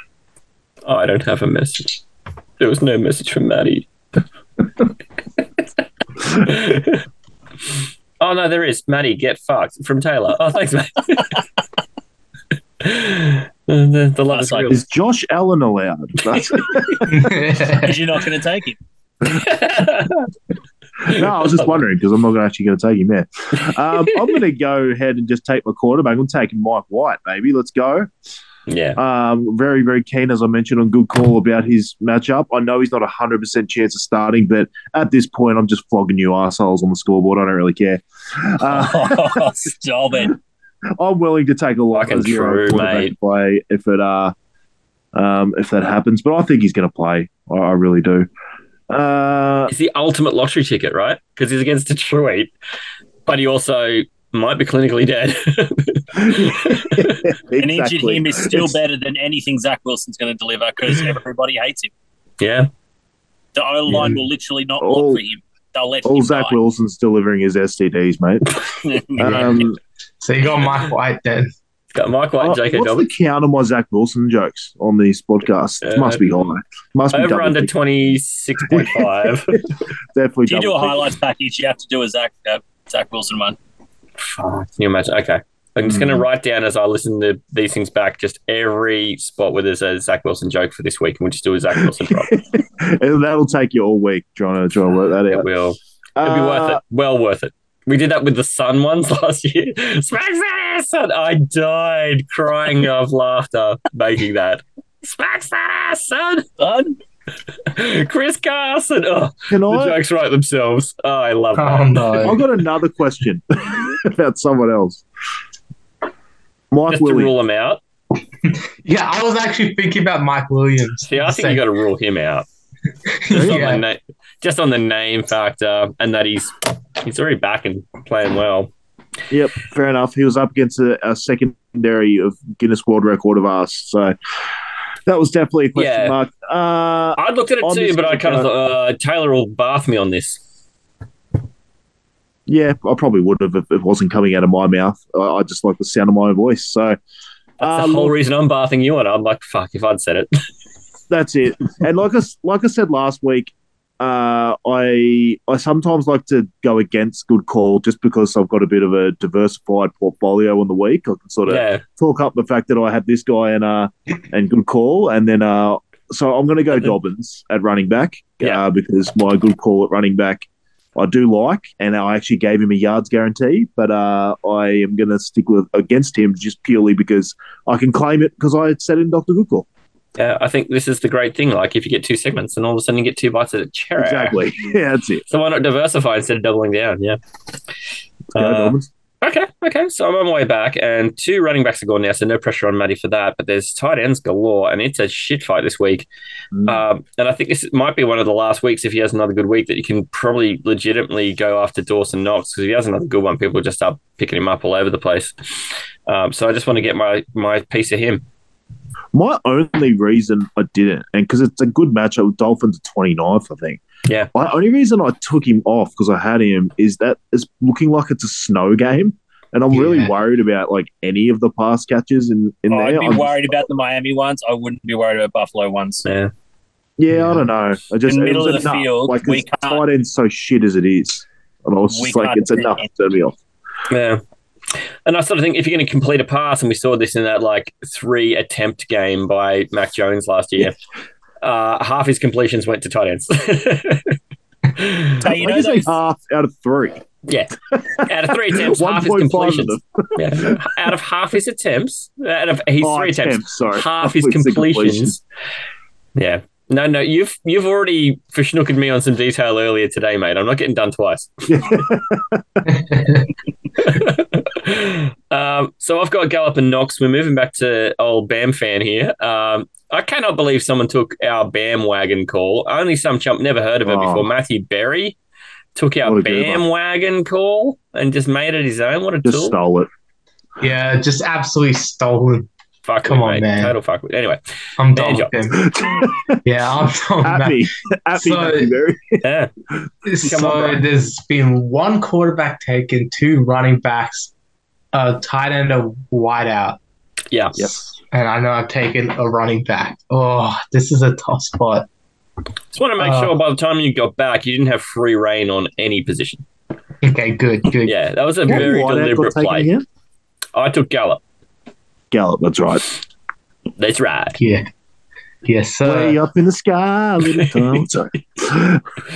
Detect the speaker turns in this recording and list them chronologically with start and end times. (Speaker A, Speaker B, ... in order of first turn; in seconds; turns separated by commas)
Speaker A: 0.8-2.0, Speaker A: 2.6-3.9, Speaker A: 6.3-7.0, Speaker A: 8.2-11.3, Speaker A: 12.8-14.8, Speaker B: 14.3-14.7, Speaker C: 14.7-17.2, Speaker D: 17.1-17.9, Speaker B: 17.7-18.8, Speaker A: 19.2-20.3, Speaker C: 21.0-28.1, Speaker A: 21.1-21.8, Speaker A: 28.7-29.0, Speaker C: 29.0-39.5, Speaker B: 38.6-40.3, Speaker C: 41.0-44.3, Speaker A: 41.9-43.1, Speaker C: 45.1-48.3, Speaker C: 48.9-49.7, Speaker A: 49.7-52.5, Speaker A: 53.3-57.2, Speaker C: 56.1-58.8, Speaker B: 57.6-61.9, Speaker A: 62.4-62.7, Speaker B: 63.5-66.6, Speaker C: 63.9-64.2, Speaker C: 64.8-65.2, Speaker C: 66.0-68.6, Speaker B: 68.8-69.7, Speaker C: 69.2-69.8, Speaker D: 69.2-69.6, Speaker D: 70.2-71.5, Speaker A: 71.9-73.1, Speaker C: 72.4-77.7, Speaker A: 75.8-76.2, Speaker A: 77.1-79.5, Speaker C: 78.7-79.6, Speaker C: 80.1-81.1, Speaker B: 80.5-83.6, Speaker A: 84.2-92.4, Speaker C: 85.8-86.3, Speaker C: 91.8-95.5, Speaker A: 95.3-106.5, Speaker C: 96.2-96.8, Speaker B: 106.6-107.0, Speaker A: 107.7-112.3, Speaker C: 109.5-110.0, Speaker D: 111.6-112.4, Speaker C: 112.2-115.0, Speaker C: 116.7-117.3, Speaker A: 116.9-117.8, Speaker D: 118.8-121.6, Speaker A: 121.1-122.5, Speaker D: 123.1-123.8, Speaker C: 123.3-123.7, Speaker A: 123.3-128.7, Speaker C: 129.3-134.1, Speaker C: 135.1-138.5, Speaker A: 135.8-136.2, Speaker A: 137.2-140.4, Speaker C: 142.5-147.0, Speaker C: 147.6-148.1, Speaker A: 147.6-150.3, Speaker C: 151.1-179.7, Speaker A: 161.5-161.8, Speaker A: 180.2-184.5, Speaker C: 184.0-185.2, Speaker A: 185.3-187.2, Speaker C: 188.3-188.9, Speaker A: 188.3-196.1, Speaker C: 196.5-196.8, Speaker A: 196.7-205.3, Speaker A: 206.1-208.2, Speaker C: 209.1-213.8, Speaker A: 214.1-214.3, Speaker C: 214.3-223.7, Speaker D: 219.7-220.1, Speaker B: 222.7-226.1, Speaker A: 226.1-226.3, Speaker C: 227.0-233.3, Speaker D: 227.1-227.4, Speaker B: 228.1-229.8, Speaker B: 231.9-232.8, Speaker A: 233.9-234.2, Speaker A: 235.1-240.8, Speaker A: 241.4-244.2, Speaker A: 244.8-245.2, Speaker B: 245.2-245.9, Speaker C: 245.4-247.0, Speaker A: 247.3-255.2, Speaker C: 247.9-250.9, Speaker C: 252.8-255.2, Speaker A: 256.2-261.5, Speaker C: 261.5-262.7, Speaker D: 262.9-263.2, Speaker A: 263.8-275.2, Speaker C: 273.9-274.3, Speaker A: 275.8-279.6, Speaker C: 276.1-276.6, Speaker C: 279.2-279.9, Speaker D: 280.6-282.5, Speaker A: 282.8-284.4, Speaker D: 283.1-283.7, Speaker D: 284.8-285.6, Speaker A: 284.9-285.3, Speaker C: 285.6-286.4, Speaker D: 286.4-287.6, Speaker C: 287.2-289.2, Speaker D: 288.1-288.7, Speaker A: 289.2-289.5, Speaker D: 290.1-294.3, Speaker A: 290.2-290.8, Speaker D: 294.9-296.8, Speaker A: 297.3-297.7, Speaker C: 297.6-297.9, Speaker D: 298.1-301.9, Speaker A: 302.7-306.4, Speaker D: 303.0-303.3, Speaker D: 307.0-307.9, Speaker A: 307.9-309.7, Speaker C: 308.5-309.9, Speaker A: 310.6-311.2, Speaker C: 312.1-312.9, Speaker A: 313.8-314.4, Speaker D: 314.4-314.7, Speaker D: 315.4-316.2, Speaker C: 315.9-318.8, Speaker A: 317.4-317.6